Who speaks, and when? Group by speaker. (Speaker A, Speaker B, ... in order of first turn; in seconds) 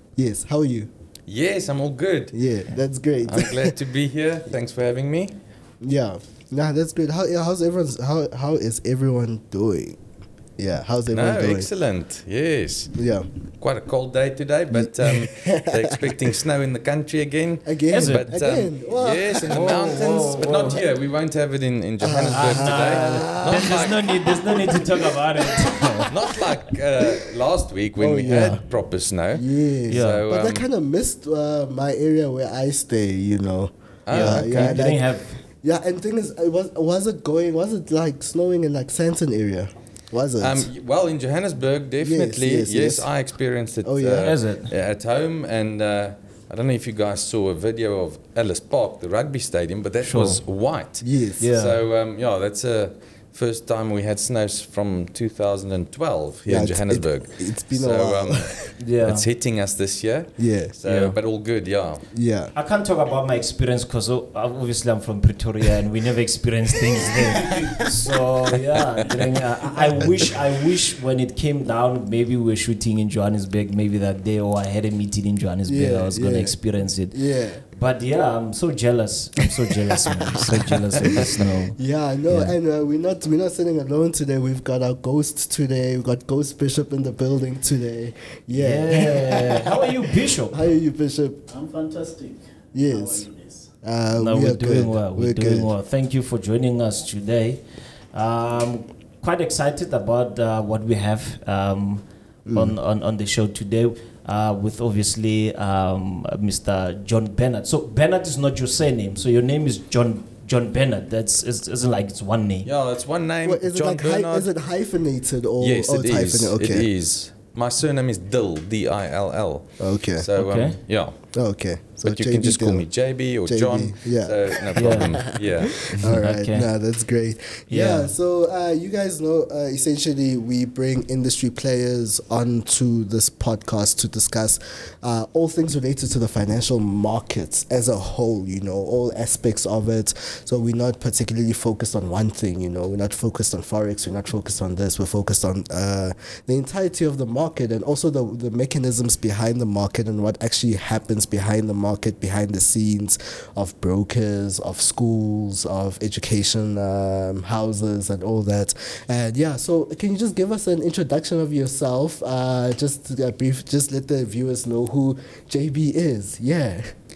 Speaker A: 0.1-0.9, 2.3-3.7, 5.8-10.0, 10.6-11.7, 12.9-13.3, 14.7-16.3, 17.6-20.8, 22.0-26.1, 28.0-28.6, 29.3-40.7, 42.0-43.1, 43.8-44.3, 51.0-51.4, 56.5-58.7, 60.4-60.7, 62.1-62.5, 75.7-77.6, 81.4-91.5, 92.7-93.2, 93.8-95.7, 102.5-102.8, 113.4-116.9, 119.8-120.3, 121.3-122.9, 123.4-166.9
Speaker B: 1.3-2.4, 3.2-5.3, 11.1-12.9, 13.6-24.3, 26.0-30.6, 34.0-34.8, 40.4-62.1, 112.6-114.5, 115.6-121.3, 122.0-125.9
Speaker C: 17.9-18.3, 19.6-20.8, 22.3-26.1, 28.3-28.6, 29.9-30.2, 34.1-35.4, 44.2-44.7, 50.0-50.4, 51.4-51.8, 58.8-59.2, 60.8-61.1, 62.5-82.5, 88.5-90.6, 94.2-97.6, 98.1-112.7, 120.3-120.8, 124.7-126.7, 127.7-128.1
Speaker D: 91.5-93.7